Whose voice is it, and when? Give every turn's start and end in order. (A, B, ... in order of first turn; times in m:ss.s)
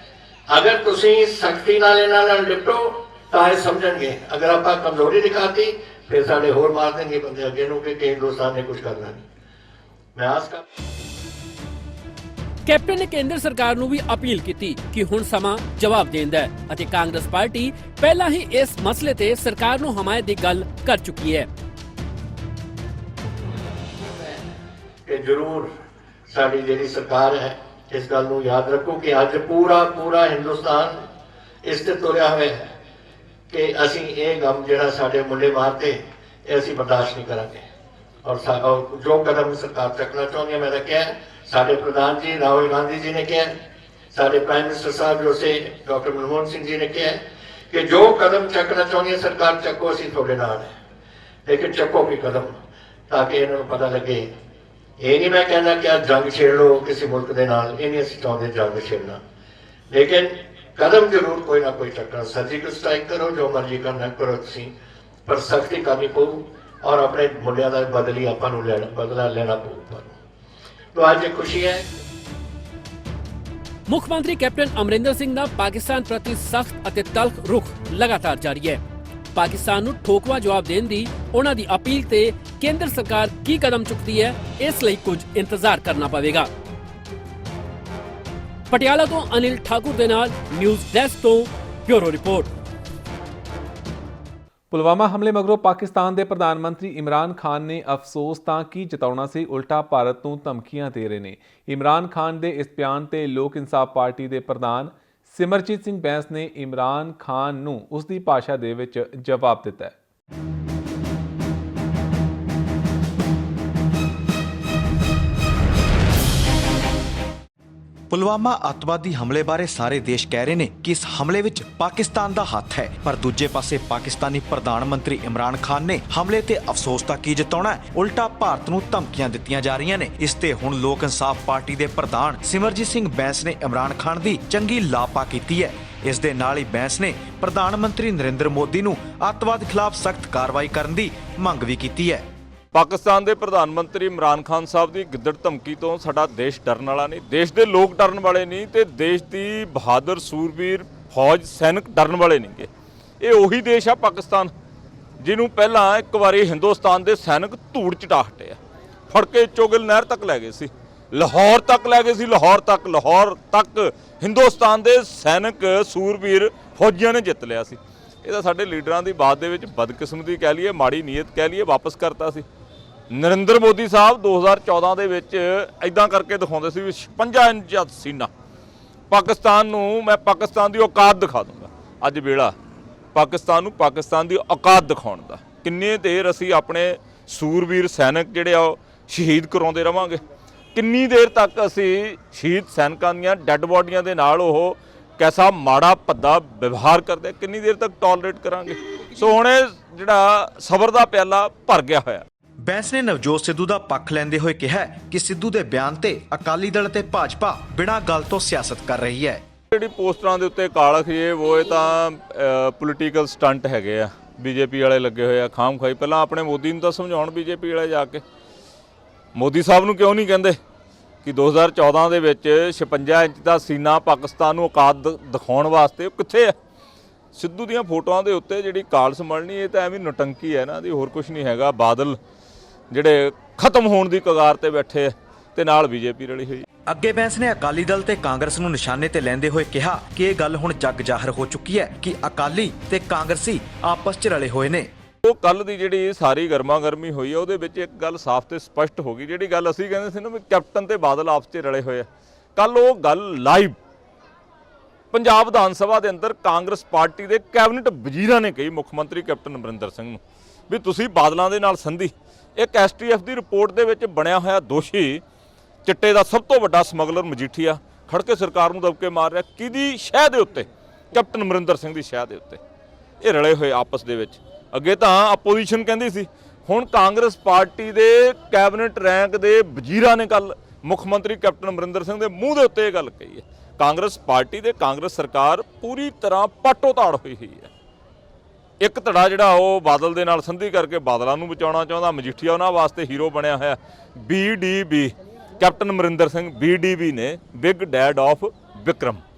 0:00.5-0:09.2 A
0:10.1-0:10.6 A
0:12.6-0:21.5 B
0:24.1-0:24.4 A
0:25.0-0:25.7 A
0:26.3-0:31.1 A
0:31.6-0:32.7 A
0:33.5-0:37.6 A
0:38.2-0:43.6 A
0:44.1-0:50.7 A
0:51.4-0:52.6 A
0:53.1-0:54.3 A
0:55.0-0:59.2 A
0:59.9-1:04.7 A
1:05.2-1:10.1 A
1:10.9-1:11.9 A
1:13.9-1:18.8 B
1:19.3-1:26.5 B
1:28.7-1:32.5 B
1:34.7-1:49.9 C
1:58.1-2:22.3 D
2:22.7-2:32.7 E
2:33.2-2:34.5 E
2:35.2-2:38.6 E
2:39.1-2:52.4 E
2:53.1-2:58.3 E
2:59.1-3:02.5 E
3:03.1-3:10.2 E
3:10.7-3:22.2 E
3:22.6-3:29.4 D
3:29.7-3:38.2 E
3:39.3-3:40.6 E
3:41.2-3:46.5 E
3:47.3-3:52.2 E
3:52.9-3:56.6 E
3:56.9-4:04.9 D
4:05.2-4:13.8 E
4:15.1-4:25.2 E
4:25.8-4:32.6 E
4:33.2-4:47.7 E
4:48.8-4:59.2 E